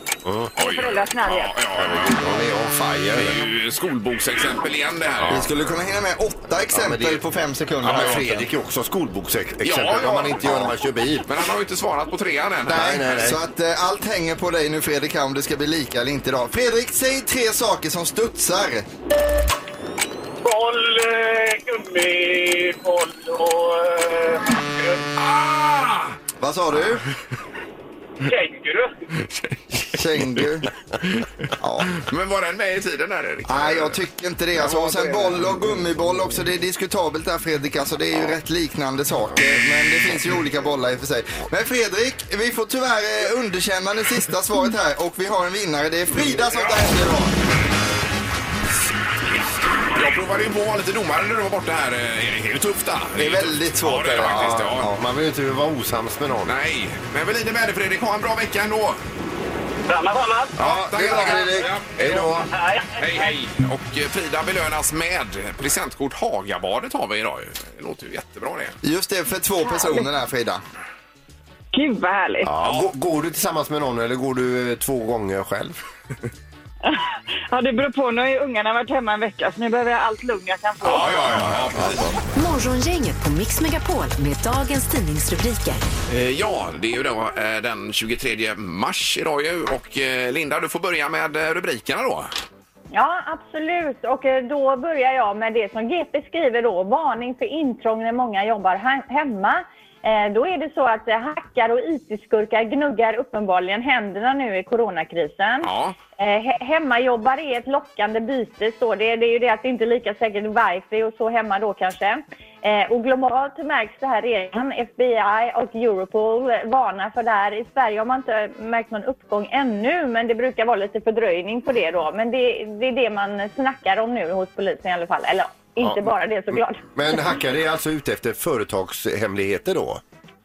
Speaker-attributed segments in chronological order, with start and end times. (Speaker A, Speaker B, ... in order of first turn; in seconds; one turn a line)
Speaker A: 0.2-0.5
Speaker B: 0.6-2.5
Speaker C: 0.6-1.6
Speaker A: 1.8-3.4
Speaker B: 3.1-5.5
Speaker A: 5.3-5.5
Speaker D: 5.3-8.4
Speaker A: 6.7-7.2
Speaker A: 7.8-11.3
Speaker B: 7.8-8.3
Speaker B: 9.6-10.7
Speaker B: 11.3-13.3
Speaker A: 12.7-13.4
Speaker D: 12.7-18.9
Speaker E: 20.4-25.0
Speaker B: 25.2-26.2
Speaker D: 26.4-27.0
Speaker E: 28.2-28.9
Speaker B: 29.2-29.6
Speaker D: 29.9-30.7
Speaker D: 31.6-32.0
Speaker B: 31.9-34.0
Speaker D: 33.5-47.3
Speaker B: 34.6-35.3
Speaker B: 49.9-54.9
Speaker D: 53.2-55.0
Speaker A: 54.2-56.5
Speaker B: 56.5-59.0
Speaker E: 59.9-60.5
Speaker A: 60.6-62.5
Speaker B: 60.6-68.8
Speaker E: 62.5-63.3
Speaker D: 68.8-70.6
Speaker C: 69.8-70.0
Speaker C: 71.7-72.5
Speaker A: 72.4-75.8
Speaker B: 72.6-72.9
Speaker C: 76.8-81.3
Speaker B: 80.8-82.2
Speaker A: 81.3-82.1
Speaker F: 82.3-85.8
Speaker B: 86.1-92.3
Speaker G: 92.9-127.2
Speaker B: 105.6-106.0
Speaker A: 127.0-130.0